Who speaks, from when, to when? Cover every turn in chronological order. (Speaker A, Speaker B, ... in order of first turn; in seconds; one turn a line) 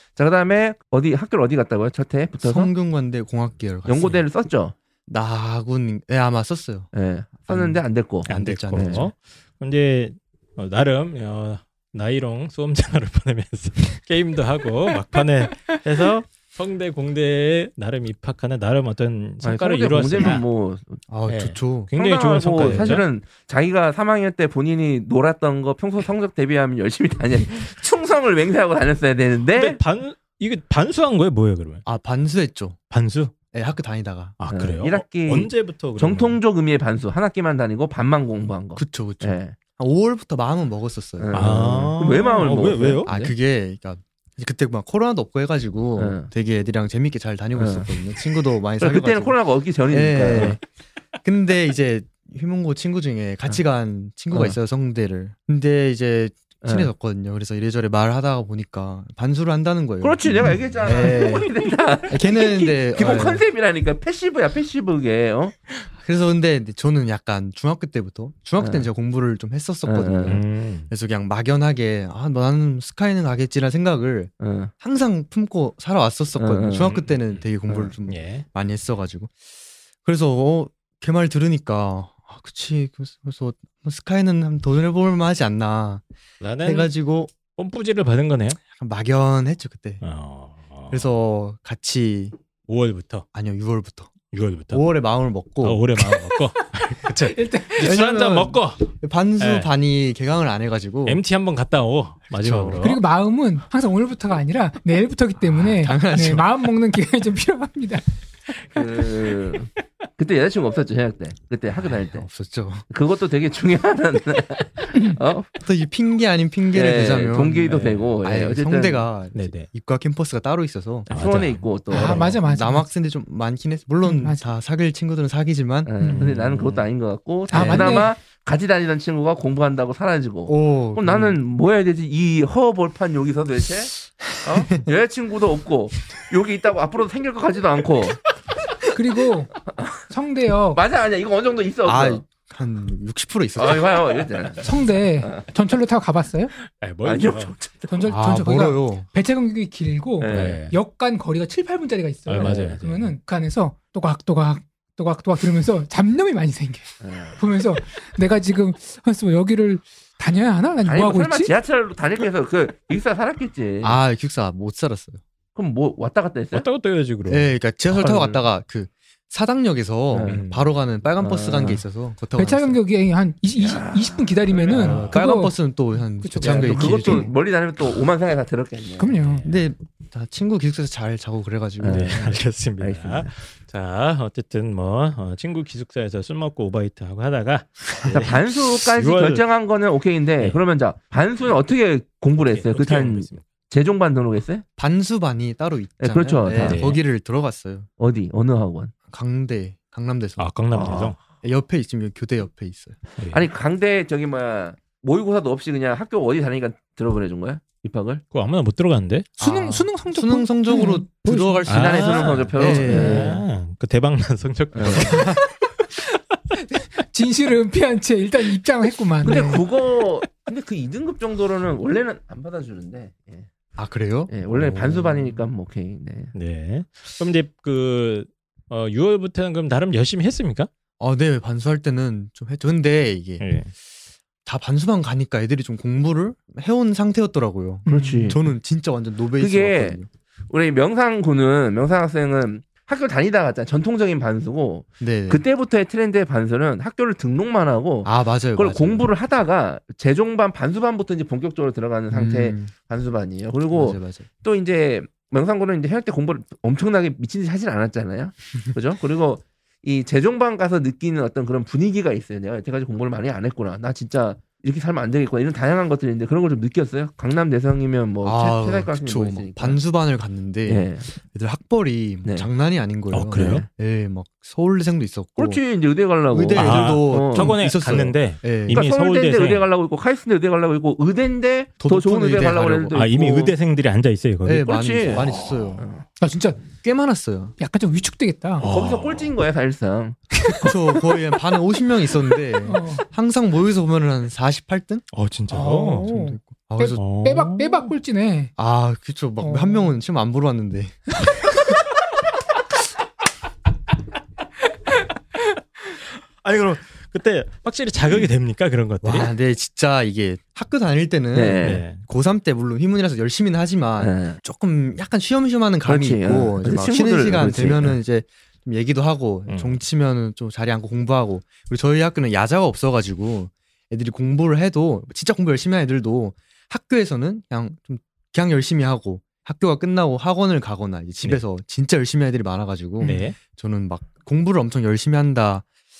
Speaker A: 0.2-2.7
Speaker B: 2.4-4.2
Speaker A: 3.9-4.8
Speaker B: 5.1-6.9
Speaker A: 6.9-9.1
Speaker B: 7.5-9.1
Speaker C: 8.3-20.4
Speaker A: 19.4-21.0
Speaker B: 21.1-21.9
Speaker C: 21.3-23.1
Speaker A: 21.9-29.8
Speaker B: 22.6-23.0
Speaker C: 29.5-31.8
Speaker B: 31.9-32.8
Speaker C: 32.9-33.3
Speaker B: 33.5-34.4
Speaker C: 34.4-36.4
Speaker A: 34.5-39.5
Speaker B: 38.8-41.9
Speaker A: 41.2-43.3
Speaker C: 41.3-43.1
Speaker B: 43.0-49.4
Speaker A: 46.0-46.3
Speaker A: 47.6-47.9
Speaker A: 48.8-50.6
Speaker B: 49.9-50.6
Speaker B: 51.2-61.5
Speaker A: 56.6-56.9
Speaker A: 60.0-65.5
Speaker B: 62.1-63.4
Speaker B: 66.0-79.3
Speaker A: 68.6-68.9
Speaker A: 69.8-70.4
Speaker C: 70.3-70.9
Speaker A: 74.4-74.7
Speaker A: 76.4-77.0
Speaker C: 77.0-77.5
Speaker A: 77.7-77.9
Speaker C: 78.1-78.5
Speaker B: 80.0-86.0
Speaker C: 86.4-88.6
Speaker B: 86.6-87.3
Speaker B: 88.7-90.0
Speaker C: 90.0-91.1
Speaker B: 90.9-92.4
Speaker C: 92.7-93.2
Speaker B: 93.3-94.1
Speaker C: 94.3-94.9
Speaker B: 94.7-96.0
Speaker C: 95.6-98.9
Speaker D: 97.2-98.0
Speaker B: 97.8-101.2
Speaker C: 99.4-99.7
Speaker C: 101.1-103.0
Speaker B: 102.3-102.8
Speaker D: 102.8-108.0
Speaker B: 105.4-106.5
Speaker A: 108.7-112.3
Speaker B: 111.7-112.8
Speaker A: 112.9-115.5
Speaker B: 115.6-121.1
Speaker A: 116.7-119.1
Speaker C: 117.7-118.1
Speaker C: 119.3-119.7
Speaker A: 121.1-122.3
Speaker C: 121.1-122.4
Speaker D: 121.9-122.9
Speaker B: 122.0-126.2
Speaker D: 124.0-124.5
Speaker A: 125.8-138.2
Speaker C: 126.1-126.9
Speaker D: 127.5-128.1
Speaker B: 127.5-128.1
Speaker B: 130.5-131.4
Speaker B: 134.3-134.9
Speaker D: 138.9-139.6
Speaker A: 139.7-140.1
Speaker D: 140.1-140.8
Speaker A: 140.7-142.2
Speaker B: 141.8-144.2
Speaker A: 143.6-144.7
Speaker D: 144.6-146.5
Speaker A: 145.2-145.4
Speaker C: 146.7-147.5
Speaker A: 147.0-148.1
Speaker D: 147.9-161.5
Speaker B: 148.1-149.1
Speaker A: 150.2-150.6
Speaker C: 150.3-150.8
Speaker C: 152.3-153.2
Speaker A: 152.4-152.7
Speaker A: 157.0-157.4
Speaker A: 160.8-164.0
Speaker B: 163.8-165.2
Speaker A: 165.6-166.7
Speaker C: 166.5-168.1
Speaker B: 167.3-172.8
Speaker A: 167.9-168.4
Speaker A: 170.1-170.4
Speaker C: 170.2-170.7
Speaker A: 171.2-171.8
Speaker D: 172.4-175.5
Speaker A: 173.6-175.2
Speaker C: 174.7-175.2
Speaker B: 174.7-177.3
Speaker D: 176.2-177.2
Speaker A: 176.4-179.2
Speaker D: 179.0-179.5
Speaker C: 179.1-179.6
Speaker B: 179.4-182.2
Speaker A: 181.8-183.3
Speaker C: 181.9-189.4
Speaker A: 188.0-194.6
Speaker C: 192.4-193.4
Speaker B: 194.8-197.9
Speaker A: 196.0-196.9
Speaker C: 196.6-197.0
Speaker A: 198.0-198.9
Speaker B: 199.1-203.0
Speaker C: 200.4-201.2
Speaker A: 200.7-201.2
Speaker C: 203.2-203.5
Speaker A: 203.3-208.2
Speaker C: 208.3-209.3
Speaker D: 209.4-211.7
Speaker B: 209.4-213.4
Speaker A: 211.7-213.4
Speaker C: 211.7-215.3
Speaker A: 214.7-215.2
Speaker D: 215.2-215.4
Speaker D: 216.7-219.7
Speaker A: 219.2-223.5
Speaker B: 223.8-224.8
Speaker A: 224.3-226.3
Speaker C: 224.5-225.2
Speaker C: 226.3-230.7
Speaker B: 231.0-233.4
Speaker C: 233.4-233.7
Speaker B: 234.4-240.1
Speaker D: 237.9-238.4
Speaker A: 237.9-238.4
Speaker A: 239.4-269.8
Speaker B: 245.0-245.4
Speaker B: 248.0-249.1
Speaker B: 252.1-252.7
Speaker B: 253.7-254.3
Speaker B: 268.2-275.6
Speaker A: 270.7-271.1
Speaker C: 273.1-273.7
Speaker A: 273.3-273.7
Speaker A: 275.4-277.6
Speaker B: 276.3-278.9
Speaker C: 276.6-279.7
Speaker A: 278.7-283.6
Speaker B: 281.8-283.1
Speaker C: 282.9-285.5
Speaker B: 284.4-285.9
Speaker A: 284.6-286.1
Speaker D: 286.2-286.7
Speaker B: 286.8-287.6
Speaker D: 287.6-288.7
Speaker C: 288.6-289.3
Speaker A: 288.7-290.2
Speaker B: 290.6-295.1
Speaker D: 292.6-293.0
Speaker C: 295.1-296.1
Speaker D: 295.5-298.5
Speaker B: 296.0-297.0
Speaker C: 297.0-297.9
Speaker B: 298.6-301.1
Speaker D: 299.4-299.9
Speaker C: 306.4-309.3
Speaker B: 309.0-335.6
Speaker A: 311.3-311.9
Speaker C: 311.6-312.0
Speaker A: 314.0-314.4
Speaker A: 315.9-318.0
Speaker C: 319.5-319.8
Speaker C: 333.0-333.4